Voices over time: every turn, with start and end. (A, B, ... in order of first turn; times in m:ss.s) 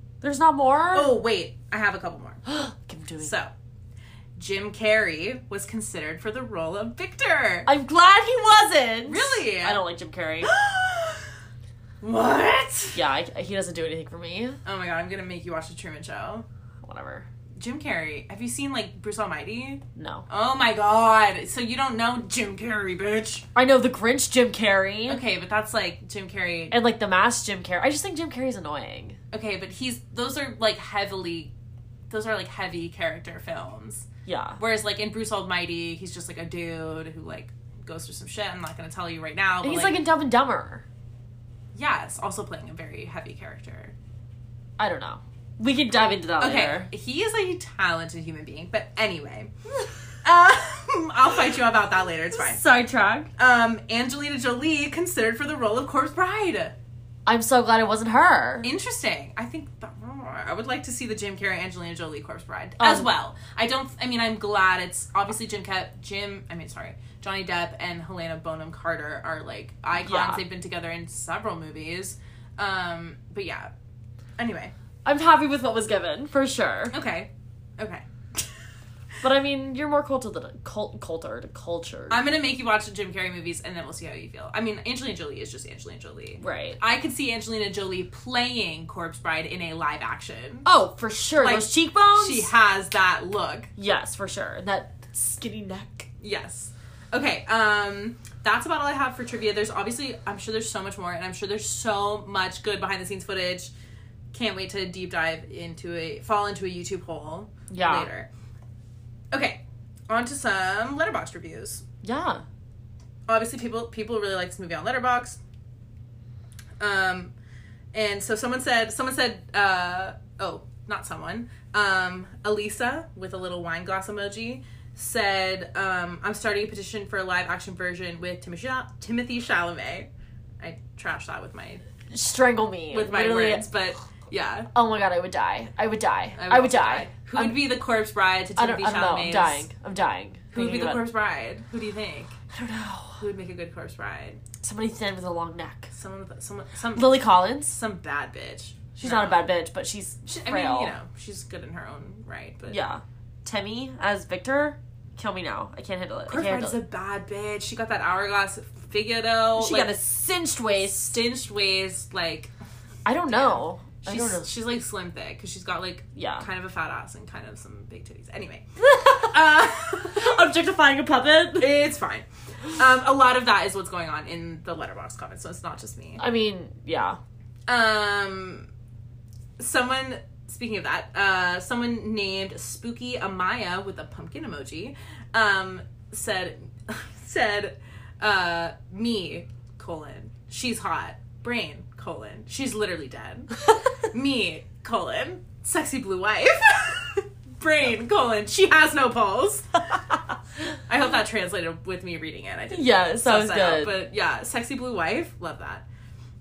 0:00.2-0:01.1 A
0:00.9-0:02.4 B
0:02.4-0:03.3 A
0:03.2-0:03.5 B
0:04.4-0:07.7 B
0:07.6-0:10.5 A
0:09.0-0:09.8 B
0:10.4-0:11.3 B
0:12.0-0:13.0 B
0:12.9-0:14.6 A
0:14.6-0:16.4 B
0:16.8-0:17.3 A
0:17.6-0:23.4 B
0:20.0-0:20.2 A
0:23.5-0:25.2 A
0:25.1-0:26.7 B
0:26.7-0:29.2 A
0:29.3-0:31.5 B
0:32.1-0:34.1 B
0:34.2-0:34.6 A
0:34.6-0:40.0 B
0:39.6-0:40.8 A
0:41.7-0:43.9 B
0:44.8-0:46.9 A
0:46.4-0:49.5 B
0:50.2-0:52.6 B
0:52.3-0:53.3 A
0:53.4-0:56.7 B
0:57.2-0:58.7 A
0:58.6-1:13.7 B
1:02.8-1:03.1 A
1:10.0-1:10.4 A
1:14.4-1:14.7 B
1:15.0-1:16.9 A
1:16.9-1:18.6 B
1:19.2-1:22.2 A
1:22.1-1:30.7 B
1:26.4-1:26.8 A
1:30.6-1:32.5 A
1:31.4-1:33.7 B
1:33.8-1:36.1 A
1:36.2-1:43.7 B
1:44.3-1:48.3 B
1:47.7-1:48.1 A
1:49.3-1:51.8 B
1:52.0-1:52.4 A
1:53.3-1:55.4 B
1:56.8-1:57.3 B
1:57.9-2:10.1 B
2:10.6-2:11.8 B
2:12.1-2:13.7 A
2:12.9-2:14.7 B
2:14.7-2:17.6 A
2:16.4-2:19.7 B
2:18.6-2:21.0 A
2:20.5-2:22.3 B
2:22.5-2:23.2 A
2:23.2-2:24.4 B
2:24.6-2:25.9 A
2:25.9-2:29.5 B
2:26.9-2:27.8 A
2:29.0-2:31.0 A
2:30.2-2:32.8 B
2:32.7-2:36.8 A
2:36.3-2:39.9 B
2:39.6-2:41.2 A
2:41.1-2:42.5 B
2:43.0-2:44.4 A
2:43.3-2:50.4 B
2:46.2-2:46.5 A
2:48.8-2:49.3 A
2:50.0-2:51.7 A
2:51.6-2:56.2 B
2:56.2-2:57.2 A
2:57.7-2:58.7 B
2:59.6-3:19.8 B
3:20.9-3:25.8 B
3:22.7-3:23.9 A